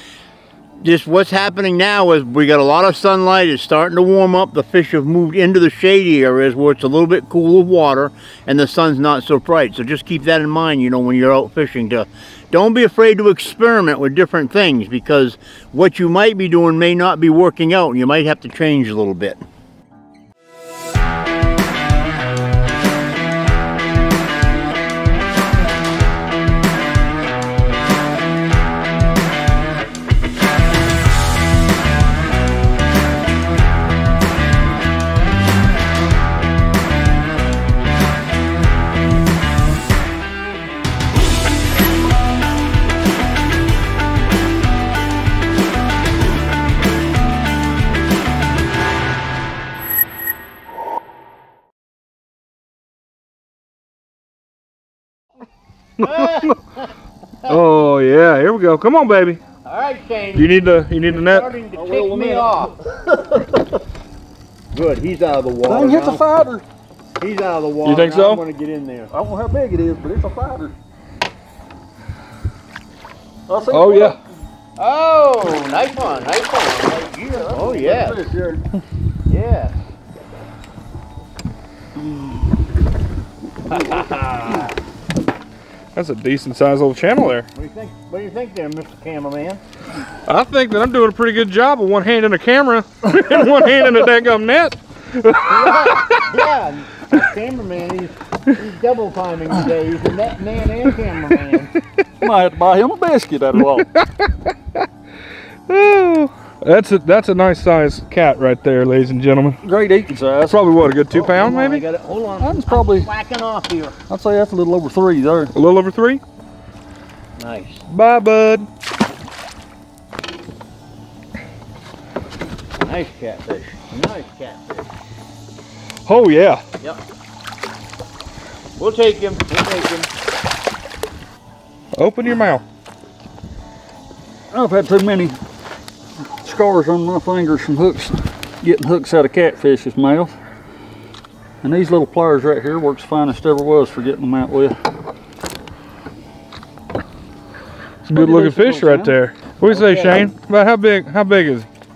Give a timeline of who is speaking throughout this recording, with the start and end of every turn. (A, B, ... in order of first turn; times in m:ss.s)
0:00.8-0:19.4 A
0:56.0-0:56.6 B
0:56.0-0:56.6 A
0:57.5-0:59.4 B
0:59.6-1:00.5 A
1:00.3-1:01.5 B
1:01.1-1:02.8 A
1:01.7-1:03.8 C
1:04.7-1:06.2 A
1:05.6-1:06.6 C
1:07.2-1:09.1 A
1:07.8-1:08.4 B
1:09.1-1:10.8 C
1:13.5-1:14.2 C
1:13.7-1:14.2 B
1:14.8-1:18.2 A
1:17.3-1:18.7 C
1:19.3-1:19.8 A
1:23.7-1:24.7 A
1:25.9-1:27.5 B
1:27.5-1:29.6 A
1:30.2-1:36.2 B
1:35.3-1:41.7 A
1:42.2-1:43.9 C
1:44.0-1:44.8 B
1:45.7-1:49.6 B
1:49.6-1:50.6 C
1:50.5-1:51.8 B
1:51.1-1:53.9 A
1:52.4-1:53.1 C
1:54.1-1:55.5 C
1:55.5-1:56.2 B
1:57.4-1:57.8 A
1:57.9-1:58.6 B
2:02.8-2:04.9 A
2:06.1-2:06.6 B
2:08.8-2:10.1 A
2:11.9-2:12.6 B
2:14.5-2:15.4 C
2:16.4-2:20.4 C
2:21.6-2:24.8 C
2:28.0-2:31.7 B
2:28.1-2:30.3 C